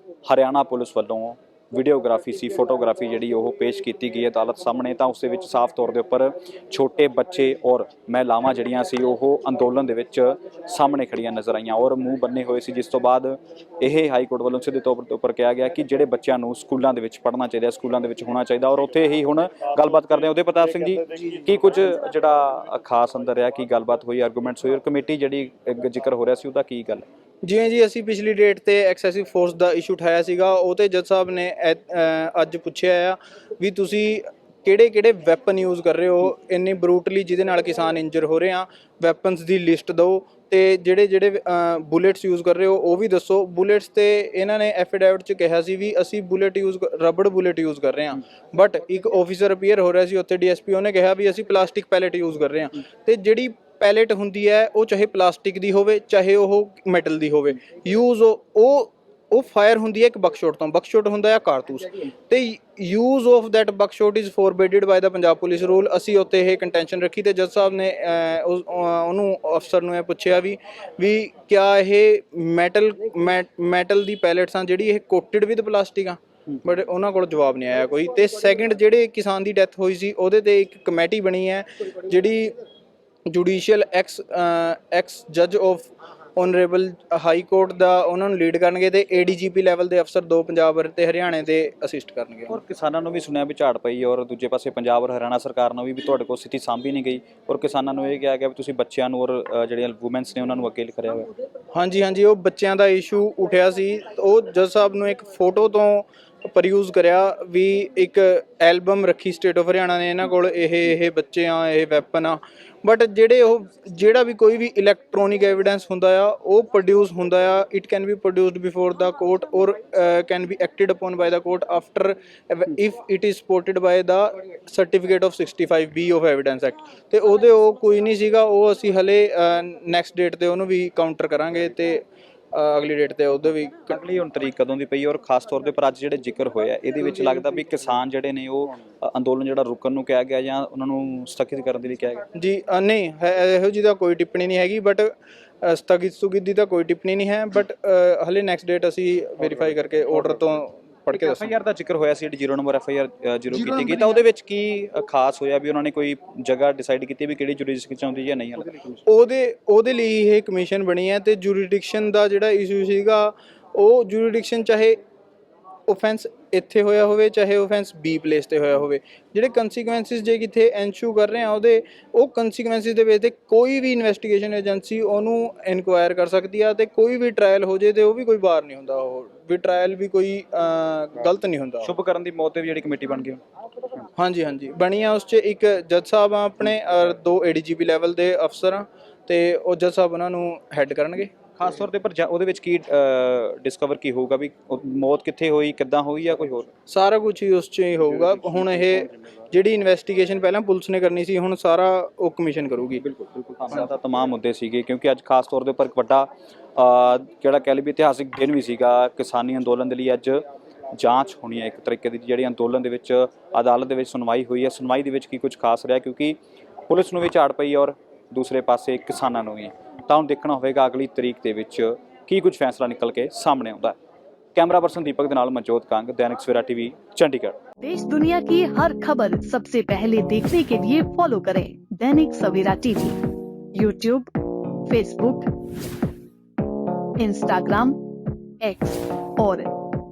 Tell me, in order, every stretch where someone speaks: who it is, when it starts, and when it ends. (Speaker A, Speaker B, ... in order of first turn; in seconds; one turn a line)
Speaker A: 0.2-27.0
Speaker B: 27.4-82.5
Speaker B: 83.3-92.5
Speaker A: 92.5-101.3
Speaker B: 101.7-134.0
Speaker A: 133.9-142.2
Speaker B: 142.3-151.6
Speaker A: 151.1-158.9
Speaker B: 153.6-154.1
Speaker B: 159.0-165.0
Speaker B: 165.9-181.9
Speaker A: 181.8-183.4
Speaker B: 184.1-191.3
Speaker A: 191.6-196.7
Speaker B: 196.9-203.0
Speaker A: 203.0-210.4
Speaker A: 210.9-216.4
Speaker A: 216.9-224.0
Speaker A: 224.5-227.6
Speaker C: 227.8-233.2
Speaker C: 233.7-234.3
Speaker C: 234.9-235.5
Speaker C: 237.2-238.0
Speaker C: 238.6-239.7